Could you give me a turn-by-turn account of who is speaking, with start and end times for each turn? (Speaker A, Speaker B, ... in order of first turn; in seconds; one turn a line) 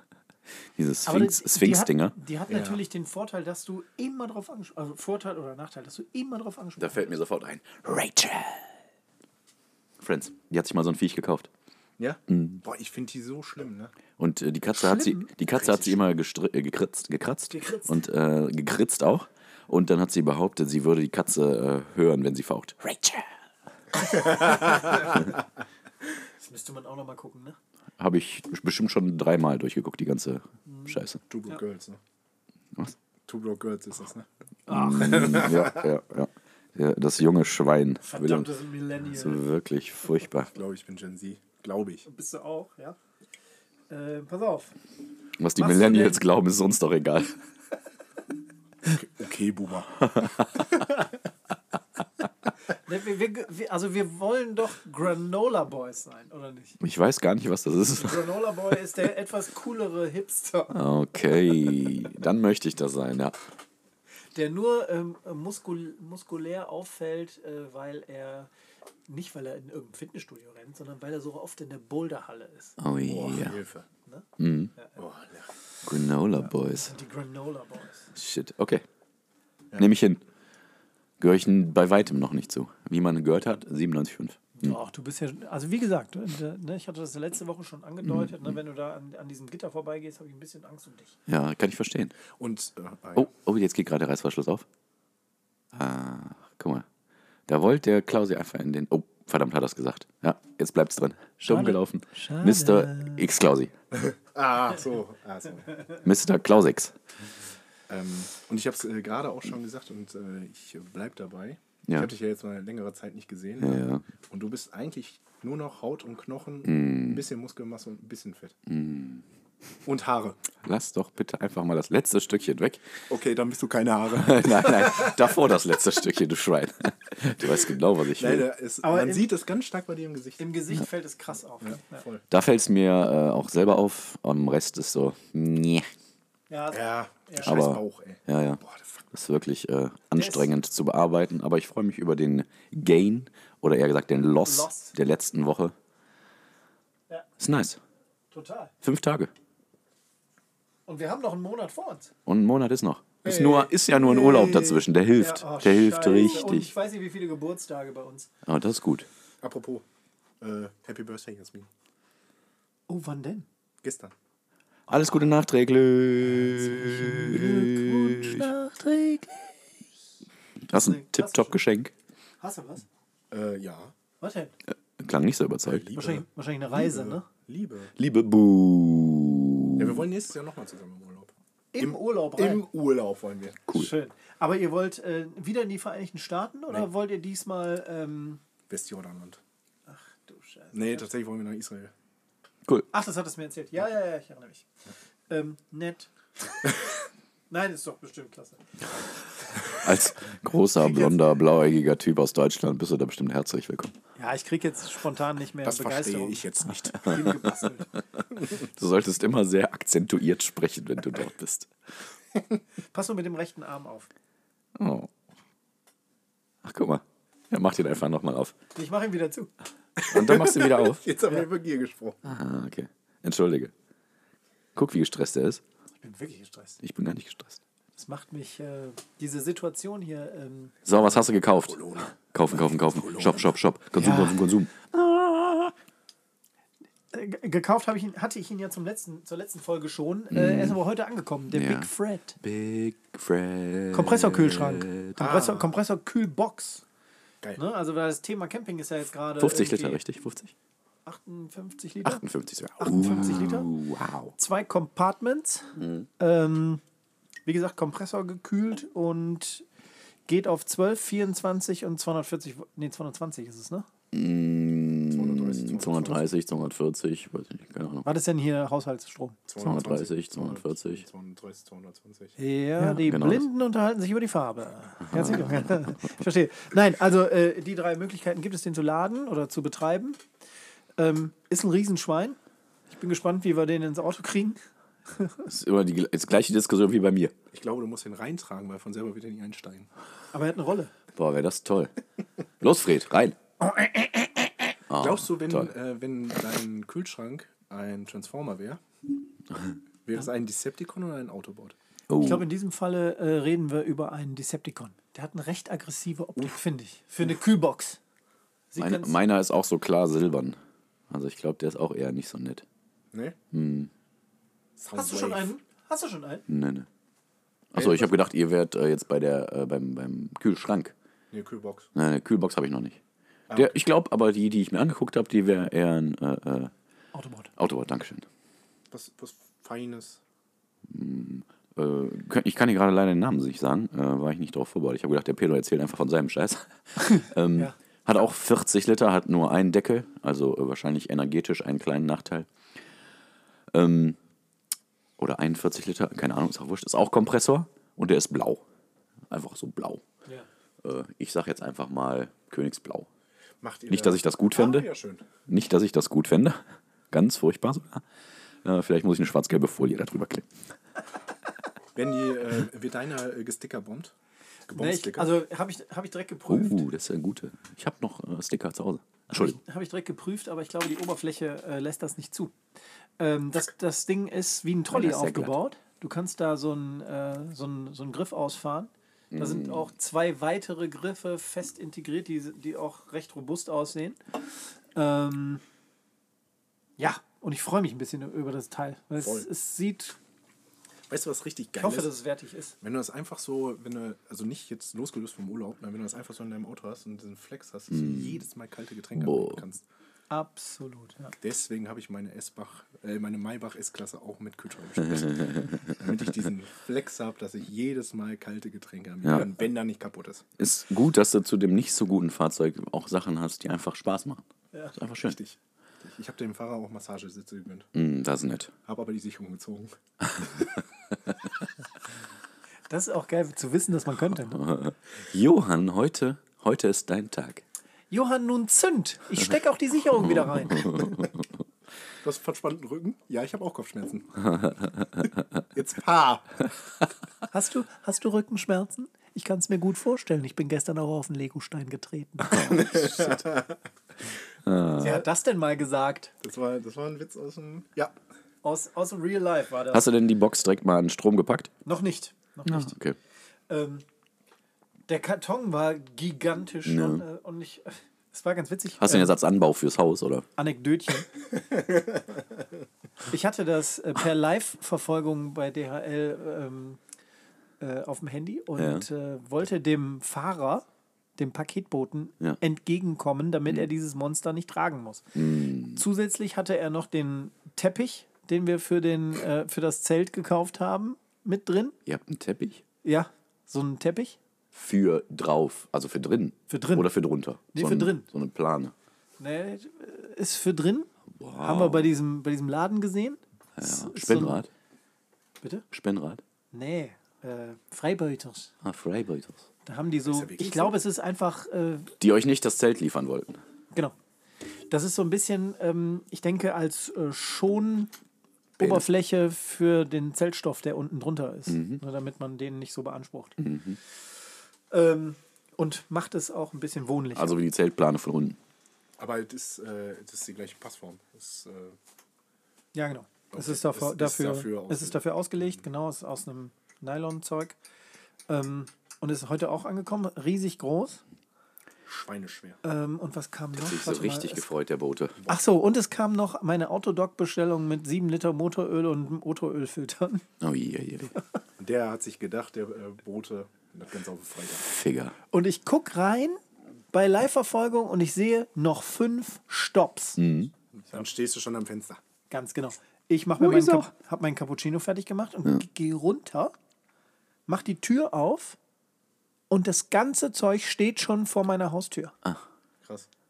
Speaker A: 0.8-2.1
Speaker B: 1.1-7.1
Speaker C: 2.5-2.8
Speaker A: 6.8-8.7
Speaker A: 10.0-11.5
Speaker C: 12.0-13.9
Speaker A: 12.3-12.6
Speaker A: 14.2-23.2
Speaker B: 14.8-15.3
Speaker C: 15.5-16.0
Speaker B: 17.5-18.0
Speaker B: 24.1-25.3
Speaker B: 26.4-27.6
Speaker A: 28.0-31.2
Speaker B: 30.7-31.0
Speaker C: 31.3-32.0
Speaker C: 33.3-34.3
Speaker B: 34.7-35.5
Speaker A: 34.7-38.5
Speaker C: 35.0-35.9
Speaker B: 38.0-39.4
Speaker A: 39.1-40.5
Speaker C: 40.5-42.1
Speaker B: 42.1-43.0
Speaker B: 43.9-44.8
Speaker A: 45.4-47.4
Speaker B: 45.6-46.2
Speaker C: 48.9-50.3
Speaker A: 50.0-50.7
Speaker B: 52.8-56.8
Speaker A: 56.8-58.6
Speaker B: 57.9-60.8
Speaker A: 60.7-63.4
Speaker B: 64.3-68.5
Speaker B: 69.1-72.8
Speaker A: 72.8-73.6
Speaker C: 73.0-73.9
Speaker B: 74.1-74.9
Speaker A: 74.4-74.7
Speaker C: 75.0-75.5
Speaker A: 75.8-76.9
Speaker B: 76.4-78.1
Speaker A: 78.2-78.8
Speaker A: 79.8-80.2
Speaker A: 81.2-84.8
Speaker B: 84.6-91.2
Speaker A: 88.0-88.6
Speaker A: 91.3-92.2
Speaker C: 92.3-93.3
Speaker A: 93.2-94.7
Speaker A: 95.7-96.8
Speaker A: 97.5-103.7
Speaker B: 101.4-103.3
Speaker C: 103.9-105.7
Speaker A: 106.0-107.0
Speaker C: 107.9-118.6
Speaker A: 113.6-114.0
Speaker A: 116.7-117.2
Speaker A: 118.7-119.2
Speaker C: 119.8-120.4
Speaker A: 120.6-122.9
Speaker C: 123.1-125.1
Speaker A: 124.1-128.5
Speaker C: 128.2-130.5
Speaker B: 128.8-129.2
Speaker B: 130.4-132.0
Speaker C: 131.6-132.2
Speaker A: 132.3-135.9
Speaker B: 136.5-137.5
Speaker C: 136.7-139.1
Speaker A: 137.4-138.6
Speaker A: 139.1-145.7
Speaker B: 140.1-140.5
Speaker B: 144.4-144.9
Speaker A: 147.4-147.8
Speaker B: 148.3-148.7
Speaker A: 148.8-149.3
Speaker B: 150.9-152.1
Speaker A: 152.3-156.7
Speaker C: 153.2-153.6
Speaker B: 153.6-158.3
Speaker A: 158.5-159.1
Speaker C: 159.4-159.8
Speaker C: 160.4-161.7
Speaker B: 162.9-163.5
Speaker C: 163.8-164.1
Speaker A: 164.9-168.5
Speaker B: 166.4-169.6
Speaker A: 170.7-171.9
Speaker B: 170.7-171.6
Speaker B: 172.4-172.9
Speaker C: 173.3-173.9
Speaker B: 174.2-174.5
Speaker A: 175.0-175.9
Speaker C: 175.7-177.9
Speaker B: 175.9-177.3
Speaker A: 178.0-180.0
Speaker C: 179.8-183.6
Speaker B: 181.7-182.7
Speaker B: 183.7-188.4
Speaker C: 188.7-189.4
Speaker B: 189.9-191.1
Speaker C: 190.7-191.9
Speaker B: 192.9-194.7
Speaker B: 195.3-196.7
Speaker B: 197.5-198.6
Speaker A: 199.6-203.9
Speaker B: 200.8-201.2
Speaker B: 204.2-207.9
Speaker C: 205.6-207.4
Speaker A: 208.5-211.7
Speaker B: 212.9-214.1
Speaker A: 214.8-215.1
Speaker A: 216.6-218.6
Speaker B: 218.8-219.5
Speaker C: 220.0-222.2
Speaker A: 220.1-221.0
Speaker A: 222.2-223.7
Speaker A: 224.8-225.6
Speaker B: 226.0-226.8
Speaker A: 226.8-227.6
Speaker B: 227.9-230.8
Speaker C: 230.8-233.5
Speaker A: 230.9-234.9
Speaker B: 234.0-234.5
Speaker B: 235.0-235.7
Speaker B: 237.1-242.4
Speaker A: 240.3-240.8
Speaker A: 241.5-241.9
Speaker A: 242.4-245.2
Speaker B: 243.9-246.8
Speaker C: 245.2-245.7
Speaker B: 247.6-250.0
Speaker A: 249.4-250.5
Speaker B: 251.1-252.2
Speaker A: 252.0-254.3
Speaker B: 252.8-253.7
Speaker B: 254.4-256.8
Speaker A: 255.8-256.1
Speaker B: 257.5-259.7
Speaker B: 260.3-263.9
Speaker A: 264.1-268.1
Speaker C: 265.1-266.3
Speaker B: 268.0-269.4
Speaker C: 269.5-272.4
Speaker A: 269.6-271.0
Speaker B: 272.4-280.2
Speaker A: 272.8-273.5
Speaker A: 275.1-275.9
Speaker B: 281.0-282.4
Speaker B: 282.9-285.5
Speaker A: 285.5-287.3
Speaker C: 287.5-289.9
Speaker B: 290.3-290.9
Speaker A: 291.2-291.9
Speaker A: 292.6-293.4
Speaker A: 294.9-295.7
Speaker C: 295.0-298.8
Speaker C: 300.1-301.8
Speaker A: 302.1-302.5
Speaker B: 302.2-308.0
Speaker B: 308.7-309.2
Speaker A: 308.8-310.6
Speaker A: 311.1-312.6
Speaker C: 313.1-313.4
Speaker A: 313.5-313.9
Speaker C: 314.8-315.5
Speaker B: 314.9-316.4
Speaker A: 316.5-316.9
Speaker A: 317.7-320.9
Speaker C: 317.7-318.1
Speaker C: 321.3-321.9
Speaker A: 321.9-323.0
Speaker C: 323.5-323.8
Speaker A: 323.5-326.7
Speaker B: 327.1-327.5
Speaker A: 327.6-328.2
Speaker C: 328.9-330.2
Speaker A: 330.9-342.5
Speaker A: 343.7-344.2
Speaker A: 345.2-348.6
Speaker A: 349.3-350.0
Speaker A: 350.8-353.1
Speaker C: 353.6-355.3
Speaker A: 353.9-354.9
Speaker A: 355.5-356.6
Speaker A: 357.1-358.0
Speaker A: 358.6-360.5
Speaker C: 361.9-364.1
Speaker C: 364.7-365.4
Speaker B: 364.7-366.8
Speaker A: 366.5-369.6
Speaker B: 369.3-372.6
Speaker B: 373.2-384.4
Speaker A: 374.9-375.6
Speaker A: 379.3-379.9
Speaker B: 384.9-385.6
Speaker B: 387.0-390.2
Speaker C: 389.2-389.5
Speaker C: 391.1-392.1
Speaker B: 391.8-392.8
Speaker C: 392.8-399.8
Speaker A: 397.9-398.4
Speaker A: 399.2-399.6
Speaker B: 400.3-401.4
Speaker C: 401.4-410.5
Speaker A: 405.2-406.0
Speaker A: 410.6-414.4
Speaker A: 415.0-415.4
Speaker C: 415.2-417.9
Speaker A: 417.9-418.7
Speaker C: 418.9-420.5
Speaker A: 420.3-420.7
Speaker B: 422.9-424.6
Speaker A: 424.5-427.6
Speaker B: 428.1-431.3
Speaker A: 430.2-431.5
Speaker C: 432.2-434.5
Speaker A: 434.5-435.3
Speaker C: 435.7-436.5
Speaker B: 437.5-443.4
Speaker C: 442.5-443.8
Speaker A: 444.6-445.2
Speaker B: 445.0-446.3
Speaker C: 446.4-448.2
Speaker B: 448.6-450.1
Speaker A: 449.9-451.7
Speaker B: 451.9-452.9
Speaker A: 452.7-453.2
Speaker B: 453.7-454.1
Speaker B: 455.1-459.3
Speaker A: 456.9-457.2
Speaker A: 459.0-460.5
Speaker B: 460.6-461.3
Speaker C: 461.6-462.4
Speaker B: 463.2-467.0
Speaker B: 467.8-470.9
Speaker A: 468.8-469.1
Speaker B: 471.4-475.3
Speaker A: 475.4-476.0
Speaker B: 475.9-481.9
Speaker A: 482.1-482.8
Speaker B: 483.0-484.4
Speaker A: 484.7-488.9
Speaker B: 486.7-487.1
Speaker B: 487.7-488.3
Speaker B: 489.4-494.6
Speaker A: 491.4-492.1
Speaker A: 493.8-494.7
Speaker A: 495.9-496.4
Speaker B: 496.7-498.7
Speaker A: 498.8-499.7
Speaker B: 499.9-502.1
Speaker C: 500.3-501.0
Speaker A: 502.2-503.6
Speaker B: 504.9-508.1
Speaker A: 508.8-509.0
Speaker B: 508.8-513.6
Speaker A: 511.7-512.0
Speaker A: 513.6-514.0
Speaker B: 514.9-517.6
Speaker A: 517.4-518.6
Speaker C: 519.2-522.0
Speaker B: 522.9-527.8
Speaker C: 523.5-525.8
Speaker B: 528.5-531.2
Speaker C: 532.1-532.8
Speaker B: 532.8-534.6
Speaker A: 533.8-535.4
Speaker C: 535.4-535.6
Speaker B: 535.5-540.5
Speaker A: 540.6-541.3
Speaker C: 541.8-544.9
Speaker A: 544.9-545.4
Speaker B: 545.5-546.6
Speaker B: 547.1-550.4
Speaker A: 550.4-550.7
Speaker C: 551.0-552.2
Speaker B: 552.5-556.7
Speaker A: 553.6-554.1
Speaker B: 557.7-558.8
Speaker B: 559.7-562.3
Speaker C: 563.0-563.3